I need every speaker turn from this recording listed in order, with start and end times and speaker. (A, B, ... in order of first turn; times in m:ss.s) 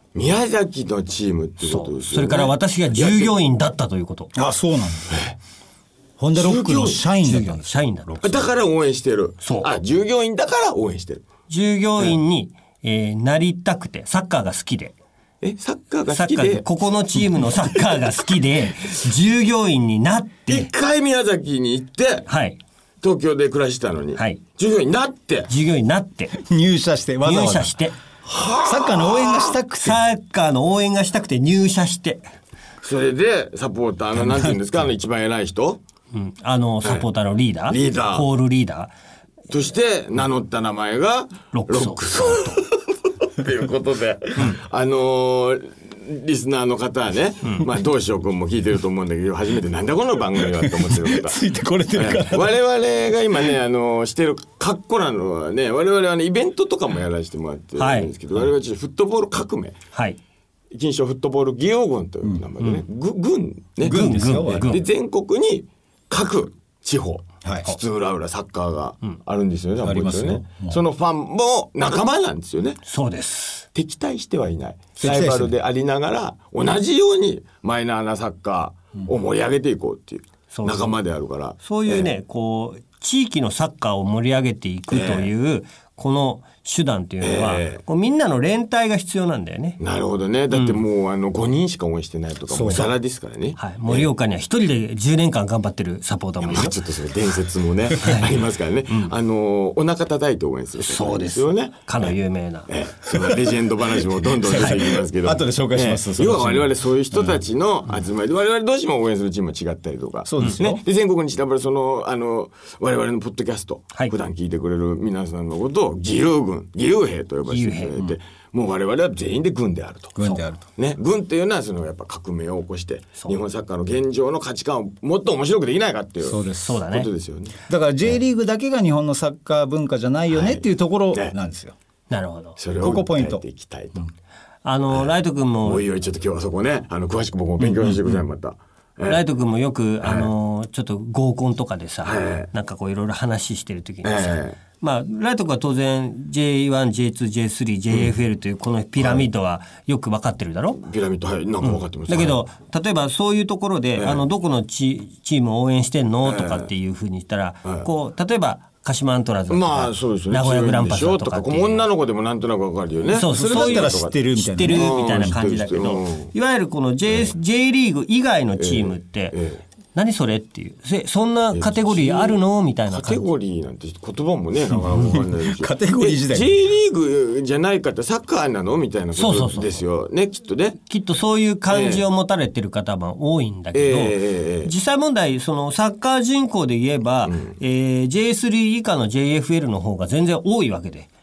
0:00.1-0:03.3 A
0:01.6-0:04.3 B
0:04.3-0:05.2 C
0:05.1-0:05.4 A
0:06.2-0:07.6 C
0:06.3-0:07.0 A
0:07.2-0:08.5 B
0:08.2-0:11.2 A
0:09.4-0:09.7 B
0:11.5-0:14.9 B
0:15.4-0:16.6 A
0:16.1-0:20.7 B
0:17.6-0:18.1 A
0:20.5-0:22.3 A
0:22.3-0:22.6 B
0:23.0-0:25.5 A
0:24.2-0:24.4 B
0:25.5-0:26.3 B
0:26.3-0:27.8 C
0:27.2-0:27.9 B
0:28.2-0:29.6 A
0:28.6-0:30.0 C
0:29.8-0:32.3 B
0:32.8-0:35.8 A
0:34.1-0:34.6 C
0:36.1-0:38.9 B
0:37.7-0:38.3 A
0:39.5-0:51.4 A
0:41.5-0:42.6 B
0:50.4-0:52.5 C
0:51.9-0:59.8 A
0:57.8-0:58.1 B
1:00.7-1:12.8 A
1:03.8-1:04.8 C
1:03.8-1:04.8 B
1:07.4-1:07.7 C
1:09.8-1:10.8 C
1:12.8-1:13.6 B
1:13.7-1:22.1 A
1:15.0-1:15.5 C
1:20.5-1:20.9 B
1:21.6-1:29.8 B
1:24.9-1:25.3 A
1:27.2-1:27.8 A
1:29.8-1:34.1 A
1:30.5-1:30.8 B
1:32.5-1:32.9 C
1:33.6-1:36.8 B
1:36.4-1:42.1 A
1:38.0-1:38.3 B
1:40.8-1:42.7 B
1:42.7-2:08.2 A
1:44.5-1:47.4 C
1:50.2-1:50.8 C
1:57.5-1:58.0 B
2:00.2-2:00.6 C
2:06.2-2:06.8 C
2:06.6-2:07.1 B
2:07.7-2:11.8 C
2:10.3-2:11.3 A
2:12.1-2:12.6 B
2:12.6-2:14.0 A
2:12.8-2:13.4 C
2:14.6-2:15.8 B
2:15.6-2:19.2 A
2:19.0-2:30.8 B
2:20.0-2:20.3 A
2:22.0-2:22.5 A
2:24.0-2:24.6 A
2:29.0-2:29.3 A
2:30.8-2:32.4 A
2:31.6-2:41.9 B
2:34.0-2:34.2 A
2:36.2-2:36.7 A
2:39.5-2:46.3 A
2:43.1-2:49.4 B
2:43.3-2:45.0 C
2:47.1-2:47.4 A
2:48.6-2:49.6 A
2:49.9-2:53.3 B
2:51.5-3:00.8 A
2:55.0-2:56.6 C
2:59.2-2:59.8 B
3:00.9-3:11.1 B
3:01.7-3:02.0 A
3:03.7-3:04.7 A
3:07.2-3:07.6 A